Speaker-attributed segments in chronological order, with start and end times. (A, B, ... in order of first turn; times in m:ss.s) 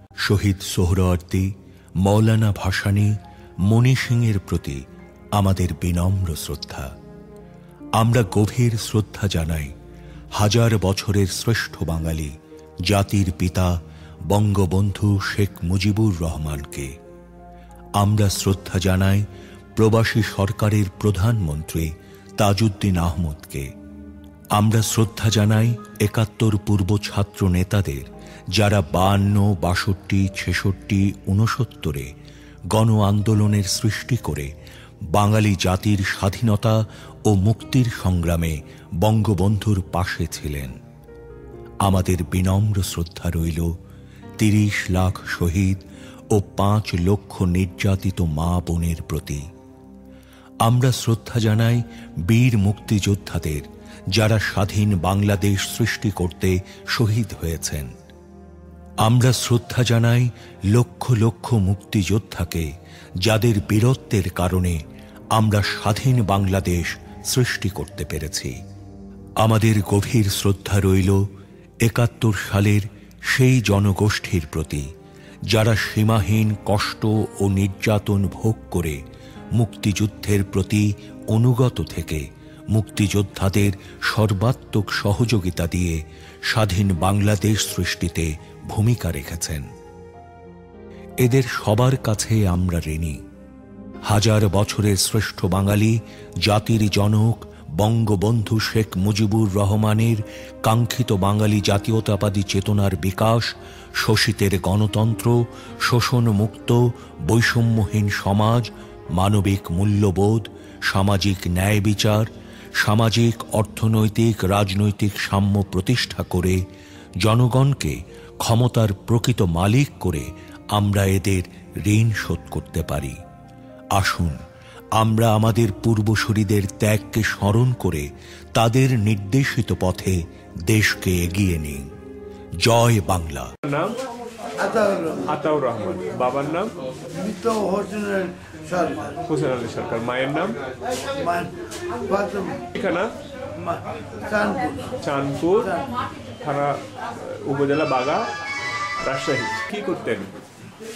0:00.2-0:01.5 A
0:02.0-0:03.1 A
0:03.7-0:04.8 A
0:05.4-0:06.9 A
0:08.0-0:09.7 A
0:10.4-0:12.3 A
0:12.9-0:13.8 A
0:14.3-0:16.9 A
0:18.0-0:19.2 A
0:19.8-0:23.7 A
0:24.6-0:32.1 A
0:32.7-0:34.5 A
0:35.1-0:40.8 A
0:41.8-0:43.7 A
0:44.4-0:49.4 A
0:50.6-0:57.9 A
0:59.0-1:02.7 A
1:03.2-1:04.8 A
1:05.4-1:08.6 A
1:09.4-1:11.2 A
1:11.8-1:14.9 A
1:15.5-1:19.0 A
1:19.6-1:29.7 A
1:31.2-1:33.2 A
1:34.1-1:56.6 A
1:57.2-2:03.2 A
2:04.0-2:04.4 A
2:05.0-2:11.9 A
2:12.6-2:13.5 A
2:13.6-2:14.0 B
2:14.6-2:15.4 C
2:15.3-2:16.8 B
2:17.1-2:19.2 C
2:19.3-2:20.6 B
2:21.1-2:22.7 C
2:22.7-2:23.1 B
2:23.6-2:25.0 C
2:25.0-2:25.8 B
2:26.4-2:28.3 B
2:29.0-2:30.4 B